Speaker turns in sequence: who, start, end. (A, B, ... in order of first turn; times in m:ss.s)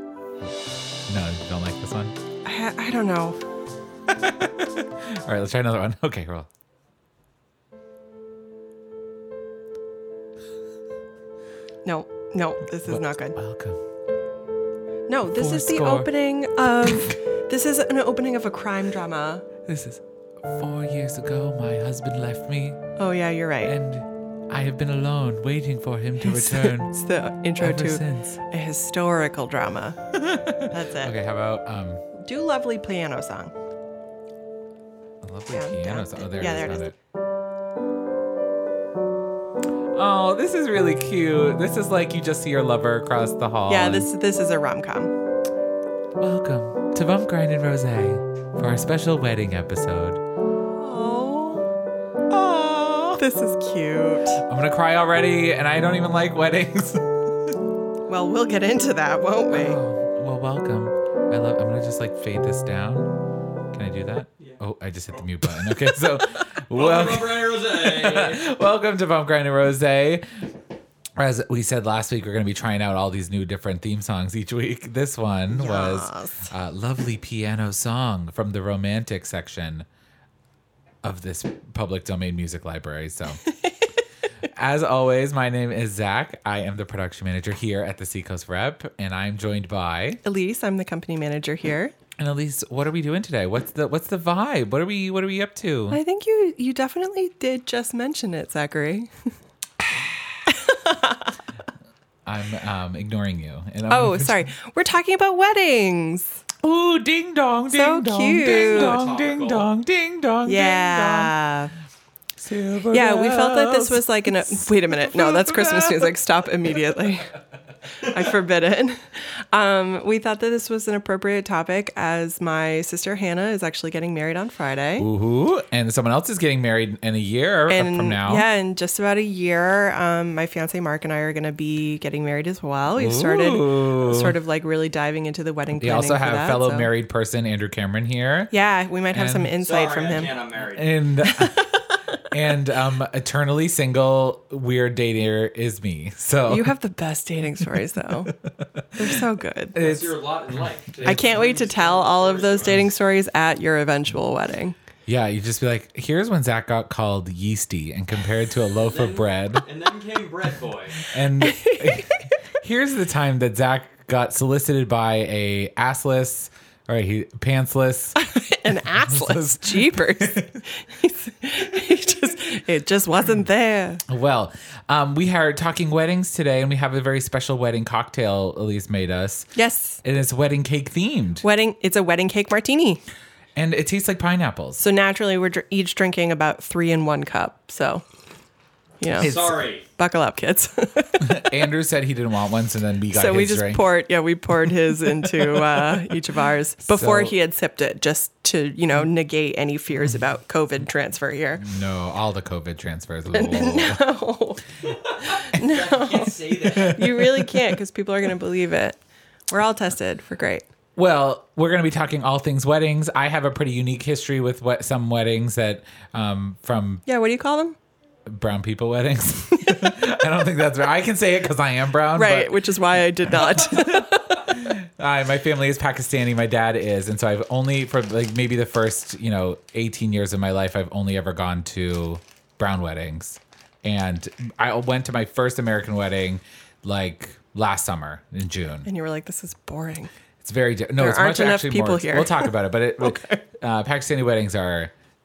0:01.1-0:02.2 A
0:02.4-0:03.4 B
0:04.2-0:06.5 A
0:11.8-0:13.4 B
0:12.8-0:13.8 A
0:15.1-0:19.5 B
0:15.3-0:16.1 A
0:19.7-0:22.8 A
0:23.0-0:23.8 B
0:23.6-0:26.9 A
0:26.2-0:30.0 B
0:27.6-0:28.4 A
0:30.1-0:32.0 A
0:30.6-0:31.1 B
0:32.2-0:33.5 B
0:35.2-0:36.9 A
0:35.5-0:36.9 B
0:39.9-0:44.1 A
0:43.7-0:45.1 B
0:46.2-0:50.2 A
0:50.8-0:51.7 B
0:52.3-0:54.4 B
0:54.5-0:57.2 A
0:58.1-0:59.8 B
0:59.5-1:03.1 A
1:03.7-1:10.3 A
1:06.7-1:08.5 C
1:11.2-1:19.9 A
1:15.5-1:16.5 B
1:21.0-1:23.4 A
1:24.4-1:30.2 A
1:30.2-1:31.9 B
1:32.2-1:36.0 A
1:35.9-1:39.1 B
1:40.5-1:41.3 B
1:42.2-1:44.5 A
1:43.9-1:46.4 B
1:46.6-1:51.3 A
1:47.7-1:49.0 B
1:48.4-1:49.7 C
1:50.4-1:51.7 B
1:52.4-1:56.2 A
1:52.9-1:57.4 B
1:57.9-2:05.1 B
2:05.0-2:08.5 A
2:07.7-2:16.9 B
2:13.0-2:14.4 A
2:15.8-2:18.5 A
2:18.5-2:20.3 B
2:19.1-2:19.5 A
2:19.6-2:21.0 C
2:20.6-2:21.7 A
2:21.2-2:21.8 B
2:22.3-2:26.7 A
2:26.5-2:28.3 B
2:28.2-2:29.2 A
2:29.0-2:29.8 B
2:29.8-2:31.3 A
2:29.8-2:32.9 C
2:31.0-2:34.8 B
2:35.1-2:39.6 A
2:38.8-2:41.1 C
2:41.1-2:48.2 A
2:41.4-2:42.2 B
2:48.2-2:54.0 B
2:48.8-2:50.5 A
2:54.1-3:01.4 A
2:59.6-3:00.0 B
3:01.4-3:03.0 B
3:03.6-3:04.8 A
3:04.8-3:08.0 B
3:09.0-3:11.5 B
3:09.2-3:09.6 A
3:09.2-3:09.9 C
3:11.2-3:13.8 A
3:13.1-3:21.7 B
3:16.9-3:17.3 A
3:21.6-3:24.0 A
3:23.3-3:24.6 B
3:25.2-3:29.0 B
3:25.6-3:27.1 C
3:26.7-3:27.6 A
3:29.5-3:30.7 B
3:31.0-3:37.0 A
3:37.1-3:37.8 B
3:38.3-3:42.6 A
3:42.2-3:44.5 B
3:43.3-3:58.9 A
3:58.8-4:00.1 B
4:00.4-4:04.9 A
4:01.0-4:03.4 B